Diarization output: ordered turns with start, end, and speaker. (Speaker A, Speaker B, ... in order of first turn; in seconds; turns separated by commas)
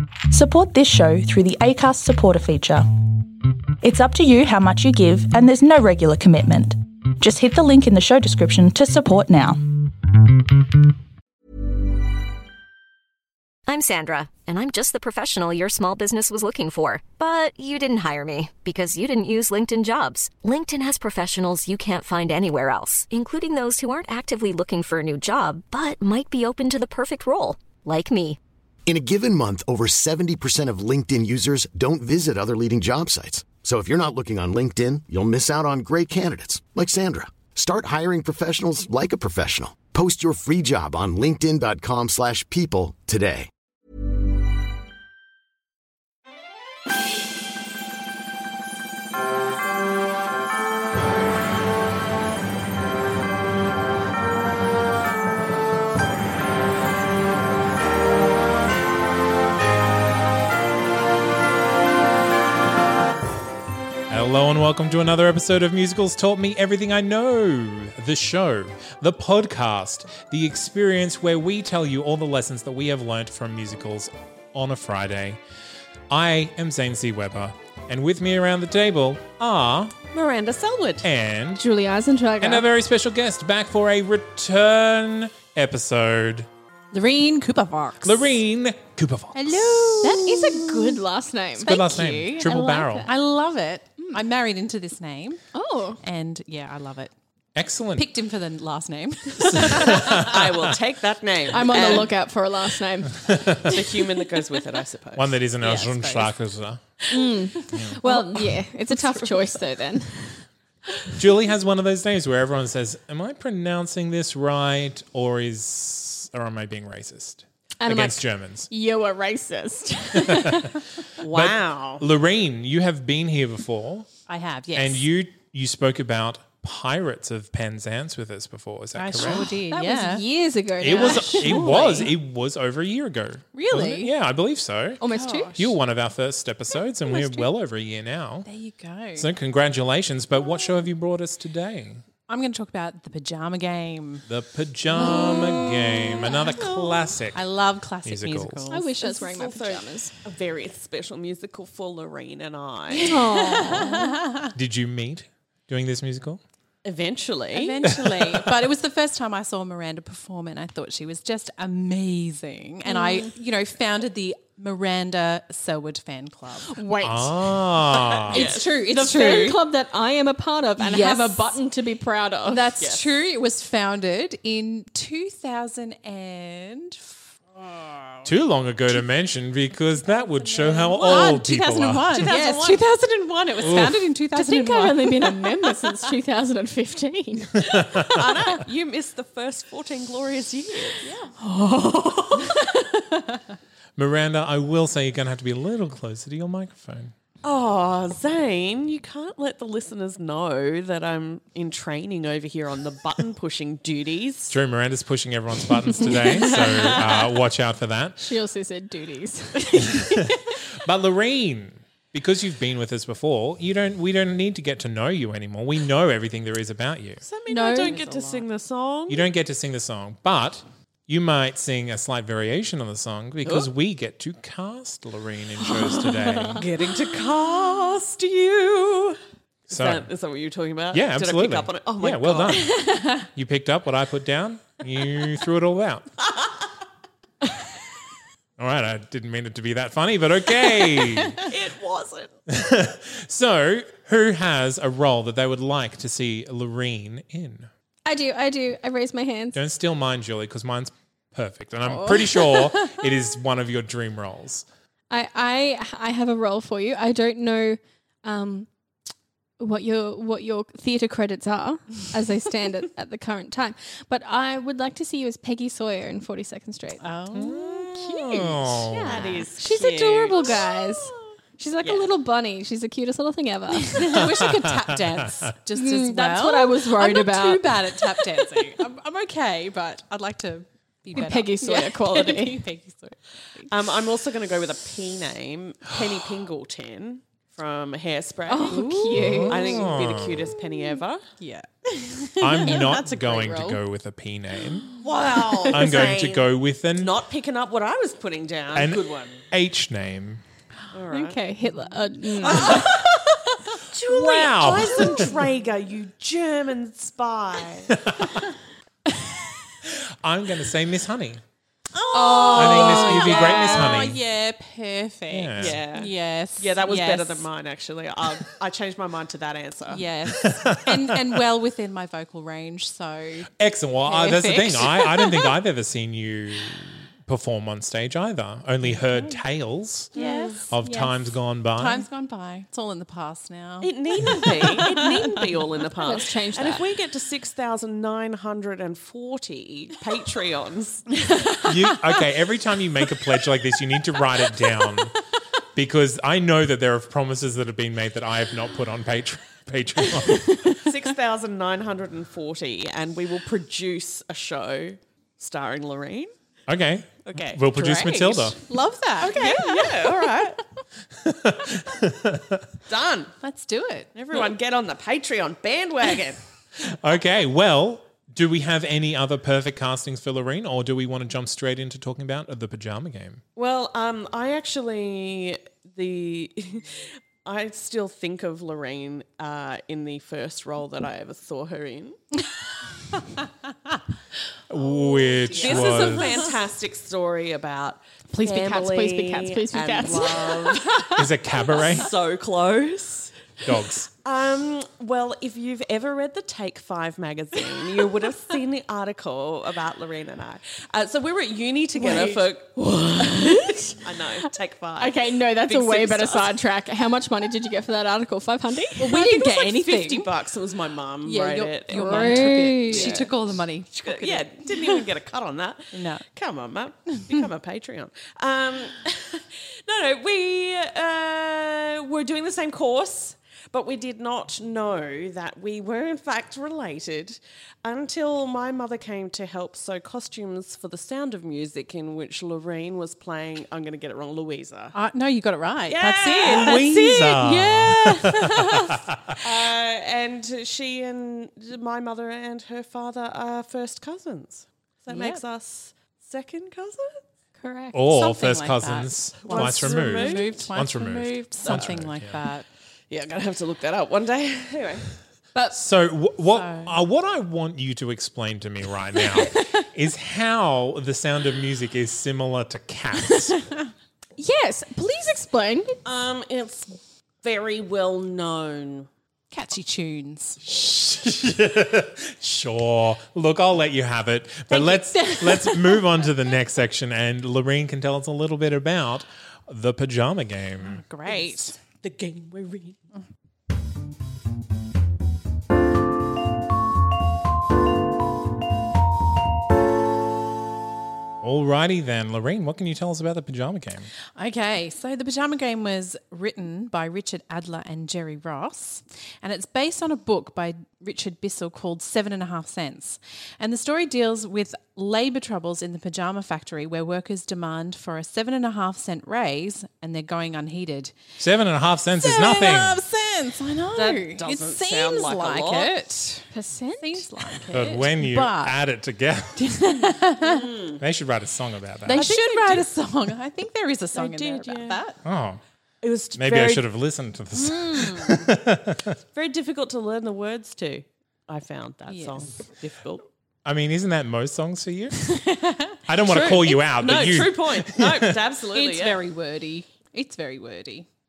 Speaker A: 0.3-10.1, Speaker B: 13.7-28.4, Speaker C: 28.9-43.5, Speaker D: 64.1-75.4, Speaker D: 76.1-80.0, Speaker E: 80.1-81.1, Speaker D: 81.0-81.7, Speaker F: 81.6-82.7, Speaker D: 82.4-86.5, Speaker G: 86.9-88.4, Speaker D: 88.0-90.1, Speaker G: 89.3-90.6, Speaker F: 90.0-93.1, Speaker E: 90.3-90.9, Speaker D: 91.6-93.1, Speaker G: 93.1-95.4, Speaker F: 95.5-96.0, Speaker G: 96.0-97.1, Speaker D: 97.5-98.1, Speaker G: 98.0-100.3, Speaker D: 99.5-100.6, Speaker E: 99.8-102.1, Speaker F: 101.5-103.9, Speaker G: 101.6-101.9, Speaker D: 103.3-103.6, Speaker E: 103.6-106.3, Speaker D: 105.2-106.8, Speaker F: 107.1-110.4, Speaker G: 108.0-108.5, Speaker E: 108.9-109.6, Speaker D: 111.2-118.7, Speaker F: 117.8-120.8, Speaker D: 120.2-124.1, Speaker E: 121.2-122.0, Speaker G: 124.3-125.1, Speaker D: 124.7-129.5, Speaker G: 128.9-130.2, Speaker F: 129.2-132.1, Speaker D: 130.8-135.0, Speaker G: 130.9-132.1, Speaker G: 133.5-134.1, Speaker F: 135.0-135.6, Speaker G: 135.1-135.7, Speaker D: 135.6-138.5, Speaker G: 138.4-139.3, Speaker D: 139.2-142.0, Speaker G: 142.3-144.2, Speaker D: 144.3-147.5, Speaker G: 145.0-145.7, Speaker F: 145.0-146.5, Speaker E: 146.6-147.1, Speaker G: 147.3-149.3, Speaker D: 148.0-148.7, Speaker F: 148.7-150.1, Speaker E: 149.2-153.2, Speaker F: 153.0-154.2, Speaker G: 153.3-154.5, Speaker D: 154.5-156.4, Speaker E: 156.8-157.9, Speaker G: 157.5-166.7, Speaker F: 162.9-163.3, Speaker F: 166.7-167.7, Speaker D: 167.0-168.5, Speaker E: 167.9-169.6, Speaker G: 168.3-169.6, Speaker F: 168.7-172.7, Speaker G: 170.8-171.6, Speaker G: 172.5-178.2, Speaker E: 172.8-173.2, Speaker D: 178.2-182.3, Speaker G: 180.1-186.0, Speaker E: 182.1-182.8, Speaker D: 183.6-184.1, Speaker F: 184.3-187.8, Speaker D: 187.6-188.4, Speaker E: 188.0-191.1, Speaker F: 191.1-192.8, Speaker G: 192.6-193.4, Speaker D: 194.0-197.1, Speaker E: 197.4-204.6, Speaker D: 204.5-208.3, Speaker E: 206.0-207.3, Speaker F: 208.2-210.6, Speaker D: 209.8-217.2, Speaker E: 217.2-219.3, Speaker F: 217.5-218.0, Speaker G: 217.7-218.5, Speaker D: 219.1-226.7, Speaker F: 225.8-226.6, Speaker E: 226.5-229.2, Speaker D: 229.7-230.1, Speaker E: 229.7-232.8, Speaker D: 230.9-236.1, Speaker G: 233.0-233.2, Speaker D: 238.6-241.4, Speaker E: 241.4-242.3, Speaker D: 242.5-247.7, Speaker F: 248.1-249.6, Speaker D: 249.5-254.7, Speaker F: 255.1-258.7, Speaker F: 259.6-267.0, Speaker G: 267.0-267.9, Speaker D: 267.3-269.2, Speaker F: 268.2-274.3, Speaker E: 269.0-271.1, Speaker E: 271.8-272.1, Speaker G: 273.8-283.7, Speaker D: 274.2-275.0, Speaker F: 275.8-278.6, Speaker F: 281.1-282.6, Speaker E: 283.7-291.2, Speaker F: 288.5-289.9, Speaker G: 288.7-289.4, Speaker D: 289.1-290.5, Speaker G: 291.4-292.8, Speaker D: 292.4-294.9, Speaker F: 292.7-293.8, Speaker E: 295.0-299.4, Speaker D: 295.7-297.2, Speaker D: 298.7-300.4, Speaker E: 300.9-301.4, Speaker F: 301.1-302.9, Speaker E: 302.5-303.1, Speaker D: 302.6-302.8, Speaker E: 303.8-308.0, Speaker D: 304.0-305.3, Speaker D: 307.9-308.4, Speaker D: 309.9-311.4, Speaker G: 311.9-317.5, Speaker E: 312.1-314.0, Speaker D: 312.5-314.2, Speaker F: 312.6-313.1, Speaker D: 315.3-315.8, Speaker E: 315.6-320.0, Speaker G: 319.9-323.5, Speaker D: 320.3-321.4, Speaker D: 323.6-330.1, Speaker G: 324.1-325.5, Speaker G: 330.1-331.0, Speaker E: 330.2-330.6, Speaker D: 330.7-332.1, Speaker G: 331.8-335.4, Speaker E: 333.8-341.2, Speaker F: 336.0-336.9, Speaker D: 341.6-345.2, Speaker D: 345.7-350.5, Speaker F: 350.3-350.7, Speaker E: 350.7-356.3, Speaker D: 356.7-358.6, Speaker E: 357.2-358.5, Speaker G: 358.3-360.5, Speaker E: 359.2-360.6, Speaker D: 361.2-362.7, Speaker E: 362.9-363.3, Speaker G: 363.4-364.1, Speaker E: 364.1-366.4, Speaker D: 366.8-373.4, Speaker E: 373.6-382.2, Speaker D: 384.7-386.4, Speaker G: 384.9-386.4, Speaker E: 385.5-391.1, Speaker F: 388.3-391.2, Speaker D: 391.1-392.1, Speaker E: 391.8-393.4, Speaker D: 393.6-394.1, Speaker E: 394.2-406.6, Speaker G: 402.0-402.4, Speaker F: 402.8-409.2, Speaker G: 409.0-410.3, Speaker E: 409.1-413.4, Speaker G: 411.2-415.0, Speaker F: 411.9-413.3, Speaker E: 413.9-434.9, Speaker G: 415.9-416.2, Speaker G: 434.9-439.0, Speaker E: 435.9-437.5, Speaker D: 436.4-439.4, Speaker E: 439.4-447.2, Speaker G: 445.1-445.4, Speaker F: 447.6-448.2, Speaker D: 447.9-452.4, Speaker G: 448.1-452.7, Speaker E: 449.4-450.7, Speaker E: 451.6-452.0, Speaker E: 453.1-455.1, Speaker D: 455.7-463.6, Speaker G: 456.5-457.0, Speaker F: 464.4-466.0, Speaker E: 466.1-469.1, Speaker G: 469.5-470.6, Speaker D: 470.6-481.0, Speaker G: 480.8-481.8, Speaker E: 481.3-483.0, Speaker D: 491.4-494.1, Speaker G: 494.4-511.1, Speaker D: 511.4-513.0, Speaker G: 512.2-518.8, Speaker E: 514.0-515.9, Speaker F: 516.5-517.3, Speaker D: 517.7-519.8, Speaker G: 519.6-520.7, Speaker E: 520.4-521.0, Speaker D: 521.0-522.2, Speaker G: 522.1-525.2, Speaker E: 522.1-522.9, Speaker E: 524.1-525.0, Speaker D: 525.2-525.6, Speaker E: 526.0-526.9, Speaker D: 526.3-529.1, Speaker G: 527.6-528.3, Speaker E: 529.3-533.2, Speaker G: 532.1-532.4, Speaker D: 533.6-535.3, Speaker G: 535.3-536.0, Speaker D: 536.1-538.4, Speaker E: 536.2-539.2, Speaker G: 538.7-541.1